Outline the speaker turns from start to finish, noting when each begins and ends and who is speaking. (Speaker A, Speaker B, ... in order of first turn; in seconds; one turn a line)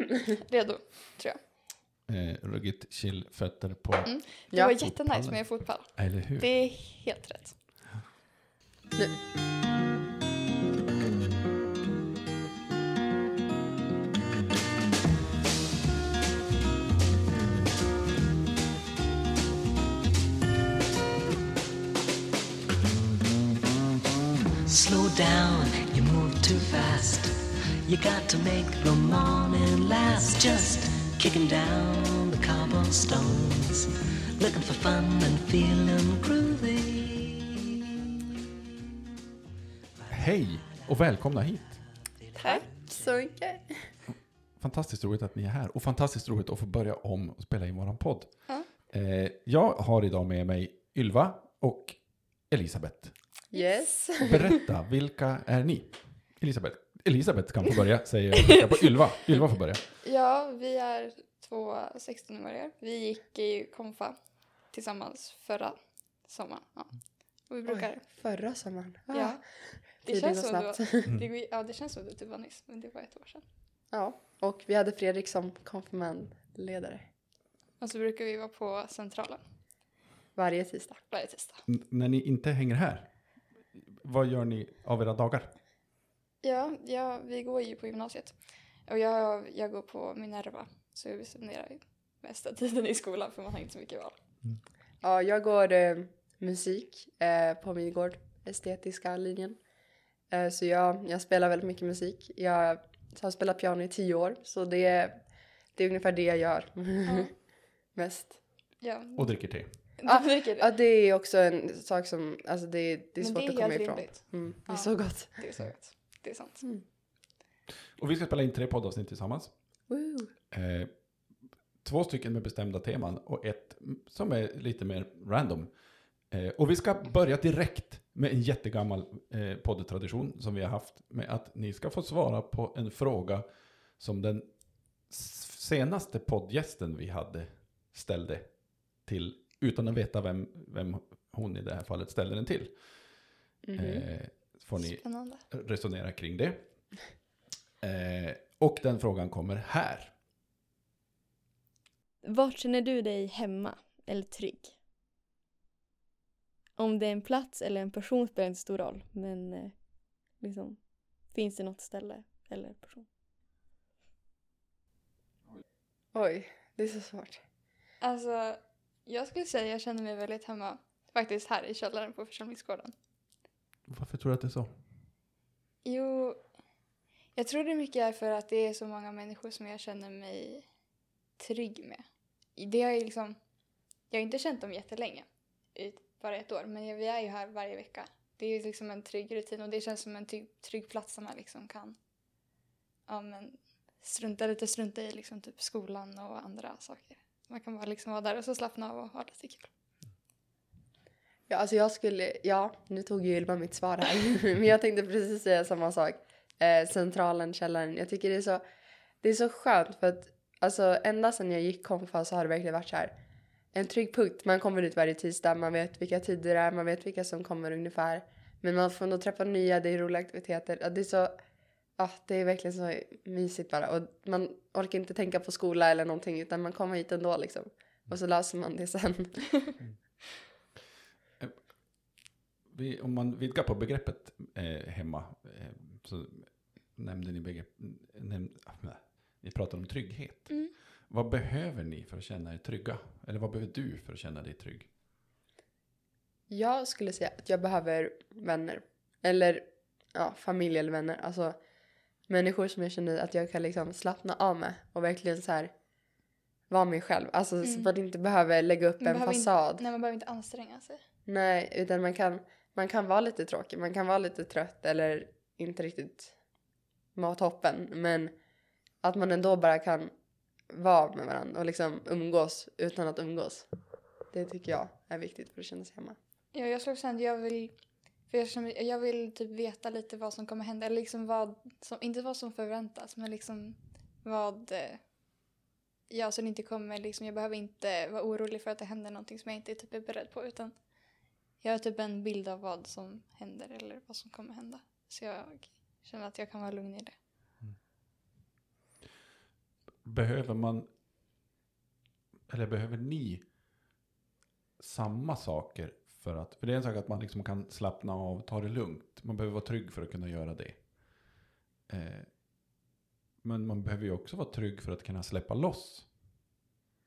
Speaker A: 0.4-1.4
Speaker B: 2.1-4.2
Speaker A: 4.0-7.8
Speaker B: 4.8-6.5
Speaker C: 24.6-37.5
Speaker B: 40.1-41.8
Speaker D: 42.3-43.9
Speaker B: 44.5-53.3
Speaker A: 53.5-54.1
Speaker D: 53.5-54.5
Speaker B: 54.2-59.9
Speaker A: 60.0-68.1
Speaker D: 67.7-71.0
Speaker A: 69.1-73.4
Speaker D: 73.9-77.1
Speaker A: 77.8-79.4
Speaker D: 80.3-81.0
Speaker A: 81.1-81.6
Speaker B: 81.7-85.5
Speaker A: 86.4-94.1
Speaker D: 95.0-99.6
Speaker D: 100.3-107.3
Speaker A: 107.0-107.3
Speaker D: 107.9-108.4
Speaker A: 108.8-110.7
Speaker B: 109.1-109.7
Speaker D: 110.0-115.4
Speaker A: 113.2-116.6
Speaker B: 118.0-119.5
Speaker D: 119.9-120.3
Speaker B: 120.5-125.7
Speaker B: 126.3-147.2
Speaker D: 143.6-144.1
Speaker A: 144.8-145.4
Speaker B: 147.8-150.2
Speaker E: 152.2-154.8
Speaker E: 156.8-163.1
Speaker D: 166.1-167.4
Speaker A: 168.0-172.9
Speaker B: 173.9-174.8
Speaker A: 175.8-176.4
Speaker A: 177.3-180.7
Speaker A: 181.4-182.0
Speaker A: 182.5-183.4
Speaker A: 184.1-191.9
Speaker A: 193.1-199.7
Speaker D: 201.5-208.6
Speaker D: 209.2-213.2
Speaker D: 213.7-221.4
Speaker D: 222.0-229.6
Speaker B: 231.4-232.2
Speaker B: 232.7-244.9
Speaker D: 246.5-251.6
Speaker D: 252.3-255.7
Speaker D: 256.7-259.8
Speaker A: 257.6-257.9
Speaker A: 259.0-261.0
Speaker D: 261.3-266.3
Speaker D: 267.1-268.3
Speaker D: 269.0-270.1
Speaker D: 270.7-273.7
Speaker D: 274.3-276.2
Speaker A: 276.5-277.7
Speaker A: 278.3-285.0
Speaker A: 286.1-297.1
Speaker B: 300.0-300.9
Speaker B: 302.5-303.5
Speaker B: 304.8-312.3
Speaker B: 313.4-316.1